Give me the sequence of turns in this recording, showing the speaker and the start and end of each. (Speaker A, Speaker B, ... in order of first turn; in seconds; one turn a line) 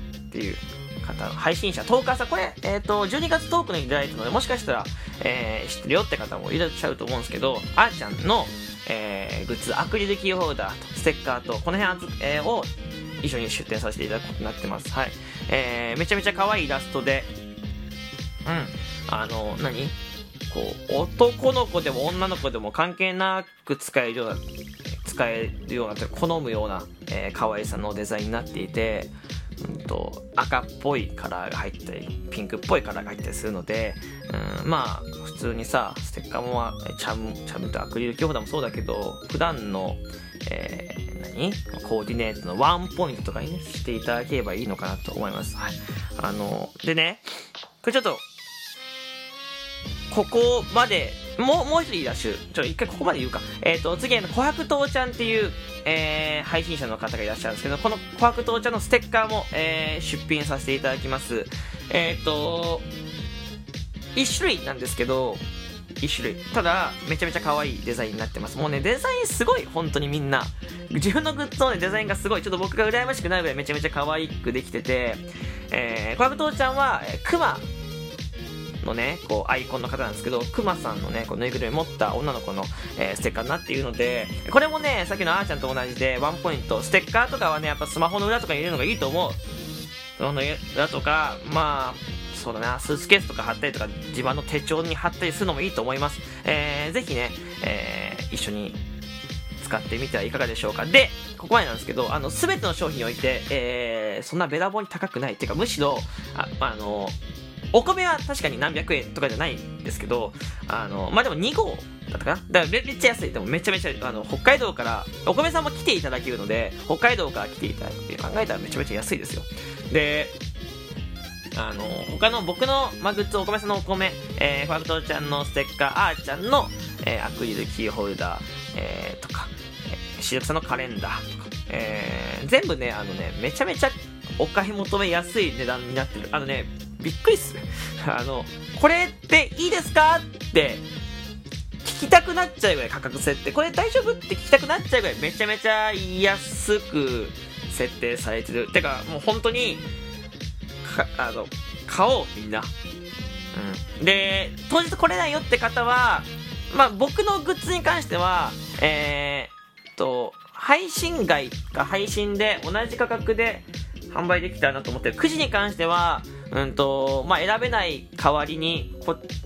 Speaker A: 0.3-12.7
Speaker A: 13.2-17.3
Speaker A: 18.4-19.9
Speaker A: 20.5-24.4
Speaker A: 25.0-47.2
Speaker A: 47.8-48.2
Speaker A: 50.1-62.9
Speaker A: 64.1-65.4
Speaker A: 66.0-77.7
Speaker A: 78.8-89.4
Speaker A: 90.2-98.8
Speaker A: 99.6-107.2
Speaker A: 107.7-120.3
Speaker A: 121.5-140.8
Speaker A: 141.8-149.8
Speaker A: 150.8-152.7
Speaker A: 153.5-169.2